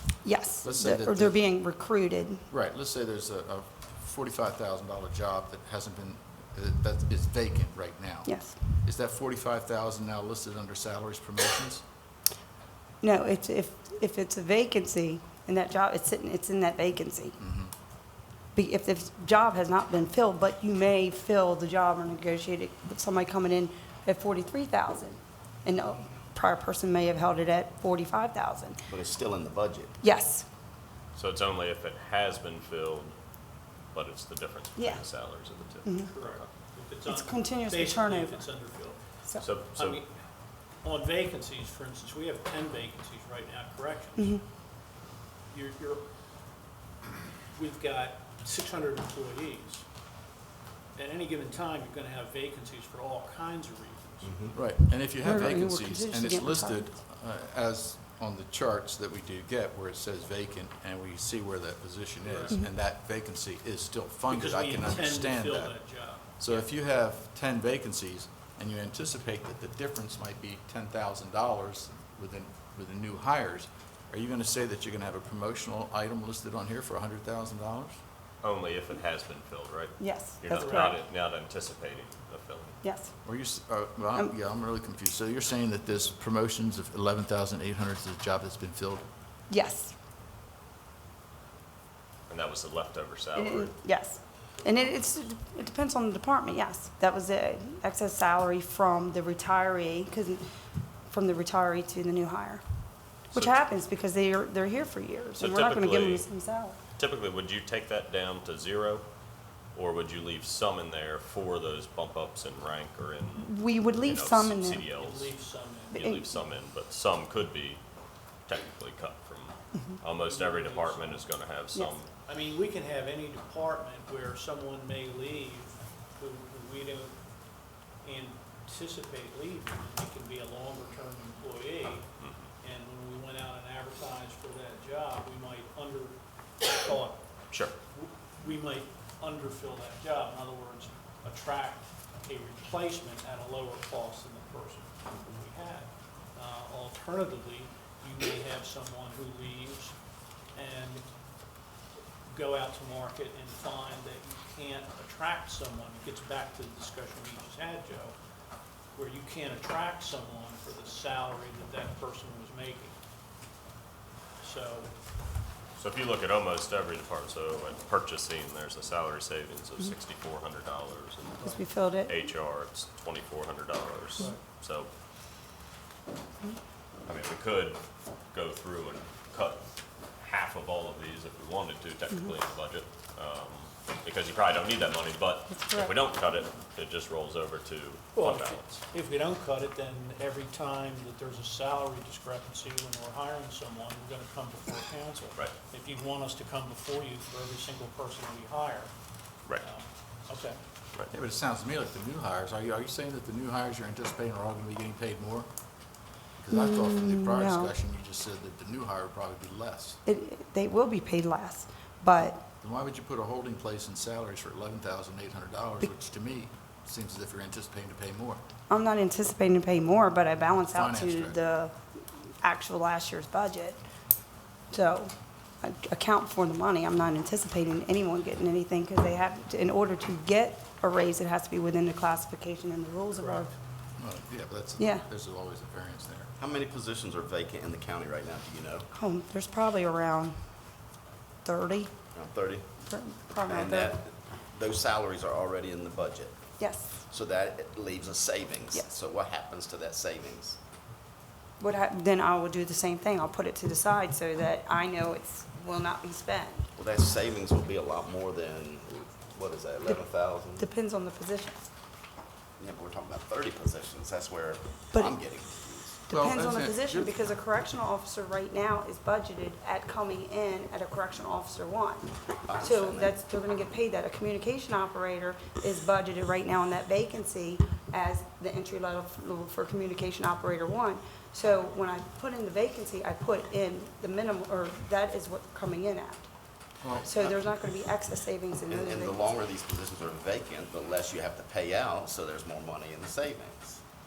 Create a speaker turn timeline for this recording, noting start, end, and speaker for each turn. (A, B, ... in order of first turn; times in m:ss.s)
0:00.2-0:02.4 A
0:00.6-0:01.4 B
0:02.5-0:11.8 B
0:08.3-0:08.6 A
0:13.0-0:17.4 A
0:17.4-0:17.7 B
0:18.5-0:28.8 A
0:28.9-0:30.0 C
0:30.0-0:30.4 A
0:31.1-0:33.1 D
0:33.9-0:36.5 D
0:34.8-0:35.0 A
0:35.8-0:36.1 A
0:36.1-0:39.0 E
0:37.1-0:38.4 A
0:39.4-0:40.0 D
0:39.7-0:40.1 E
0:40.8-0:44.4 E
0:44.2-0:44.4 A
0:45.5-0:46.0 E
0:47.5-0:49.8 E
0:51.0-0:54.4 E
0:54.2-0:54.5 C
0:54.5-1:05.7 B
0:55.2-0:56.9 A
1:02.3-1:02.5 E
1:04.3-1:06.6 E
1:06.4-1:18.0 B
1:18.4-1:22.8 D
1:20.0-1:21.0 A
1:20.6-1:20.9 E
1:22.8-1:23.1 A
1:23.2-1:29.0 B
1:29.5-1:29.9 A
1:32.3-1:33.7 D
1:33.3-1:40.4 A
1:41.1-1:42.6 A
1:43.3-1:46.8 A
1:43.3-1:43.6 D
1:45.4-1:46.2 D
1:47.0-1:49.0 D
1:49.7-1:55.3 D
1:53.4-1:54.9 A
1:55.0-1:56.0 E
1:55.9-1:56.3 A
1:55.9-1:57.8 D
1:58.5-2:02.1 D
2:00.2-2:01.2 E
2:02.2-2:07.1 E
2:08.0-2:12.1 E
2:12.2-2:12.5 D
2:12.6-2:17.2 E
2:17.5-2:17.8 D
2:17.9-2:29.9 E
2:30.5-2:31.0 E
2:32.3-2:38.2 E
2:38.9-2:43.0 E
2:44.4-2:44.9 E
2:45.8-2:54.9 D
2:51.4-2:52.1 A
2:57.0-2:57.8 D
2:58.3-2:59.6 D
3:00.2-3:08.8 D
3:05.5-3:06.0 A
3:08.1-3:18.9 E
3:19.6-3:20.6 E
3:21.0-3:25.5 B
3:26.4-3:30.0 B
3:26.5-3:27.7 A
3:30.0-3:32.4 A
3:32.6-3:38.4 B
3:38.7-3:41.8 A
3:40.7-3:41.4 B
3:42.4-3:43.8 A
3:44.7-3:53.5 A
3:54.0-3:56.3 B
3:54.8-3:55.0 A
3:56.4-3:58.9 C
3:58.9-4:00.4 A
4:01.4-4:01.9 A
4:02.1-4:02.6 C
4:02.8-4:03.9 A
4:03.5-4:06.5 C
4:06.6-4:06.9 A
4:07.0-4:10.6 C
4:11.6-4:16.7 A
4:16.8-4:20.6 C
4:20.6-4:21.6 A
4:22.6-4:26.0 C
4:26.1-4:27.1 B
4:26.1-4:46.3 A
4:32.4-4:33.1 C
4:46.8-4:47.4 B
4:47.0-4:49.2 A
4:48.7-4:53.8 C